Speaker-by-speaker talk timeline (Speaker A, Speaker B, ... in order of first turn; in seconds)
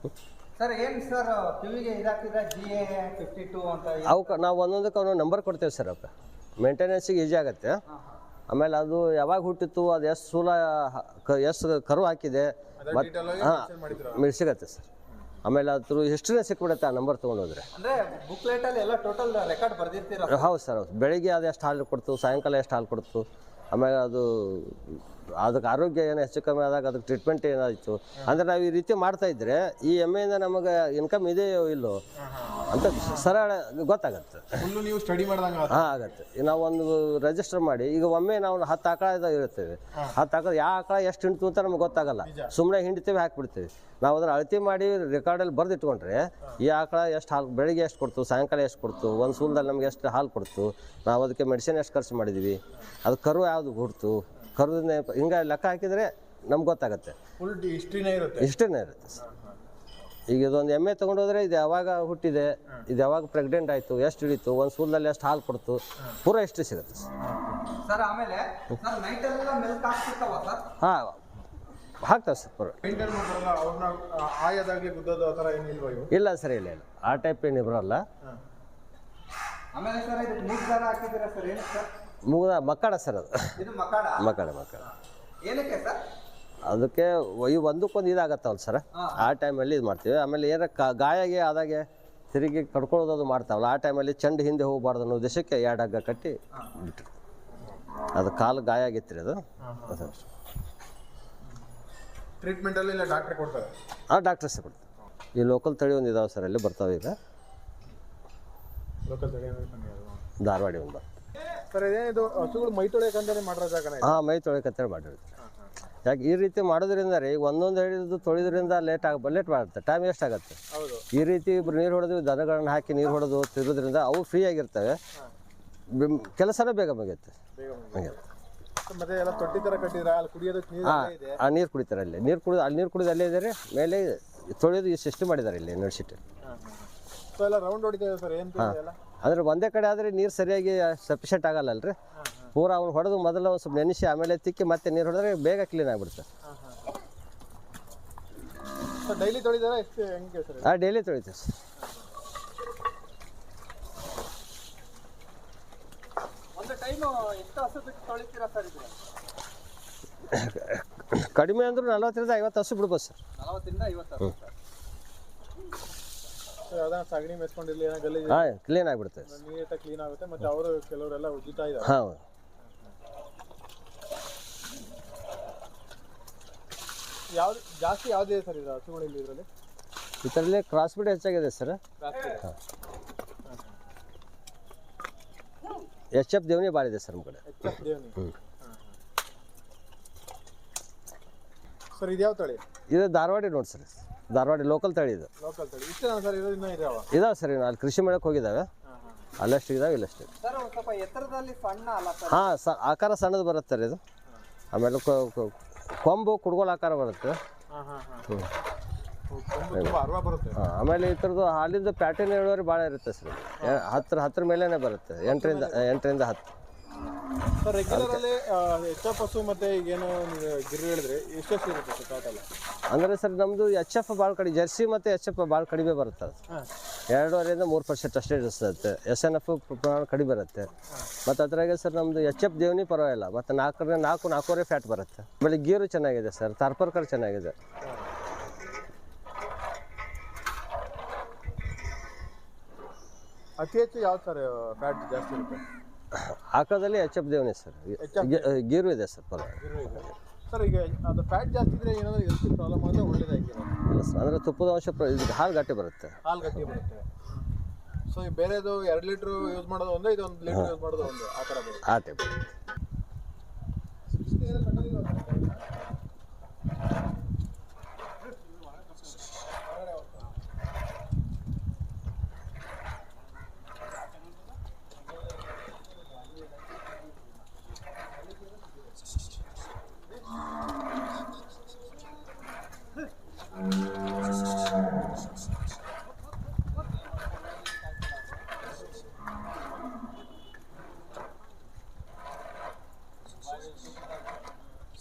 Speaker A: 0.6-4.3, 7.9-8.2, 17.7-20.5, 67.8-70.7, 79.7-81.9, 83.6-86.0, 88.9-89.2, 156.6-158.9, 163.4-164.5, 200.4-202.5
Speaker B: 4.0-7.8, 8.5-14.9, 15.4-17.7, 20.3-32.0, 32.7-34.6, 35.7-57.2, 58.4-59.2, 60.3-67.1, 70.8-71.3, 72.0-72.8, 76.1-78.0, 82.2-83.6, 84.2-84.8, 86.6-97.1, 98.1-100.1, 104.1-104.8, 105.3-107.2, 110.4-111.0, 114.0-115.2, 116.0-120.6, 121.1-125.0, 125.9-127.3, 130.8-136.2, 138.6-141.9, 142.5-146.3, 150.6-151.5, 160.3-163.2, 168.3-169.3, 171.8-172.2, 180.2-181.8, 186.1-187.4, 192.9-195.3, 197.1-198.7, 199.4-200.3, 202.3-204.0, 204.7-207.4, 210.5-216.5, 217.9-218.2, 222.9-226.3, 227.1-230.7, 231.2-237.5, 246.1-250.1, 253.9-256.2, 260.5-260.7, 261.8-262.4
Speaker C: 12.8-14.3, 32.1-33.4, 34.6-35.9, 42.2-42.5, 57.4-58.5, 59.2-59.6, 67.2-67.6, 72.8-76.1, 99.6-100.2, 102.4-103.7, 109.0-110.2, 111.7-114.2, 115.4-115.7, 120.7-121.0, 127.5-128.2, 128.8-131.4, 136.4-139.0, 142.1-142.5, 146.4-146.9, 149.0-150.8, 151.8-152.1, 166.7-168.5, 169.2-171.9, 177.3-179.5, 182.0-182.4, 187.4-188.9, 191.9-192.6, 195.4-197.1, 198.8-199.2, 207.7-208.3, 209.3-210.6, 213.6-213.9, 215.3-215.9, 217.6-222.4, 237.8-238.1, 243.6-245.6, 248.0-248.5, 249.6-253.7, 256.2-257.2, 258.1-261.8, 264.1-265.7, 269.6-270.4, 293.6-294.0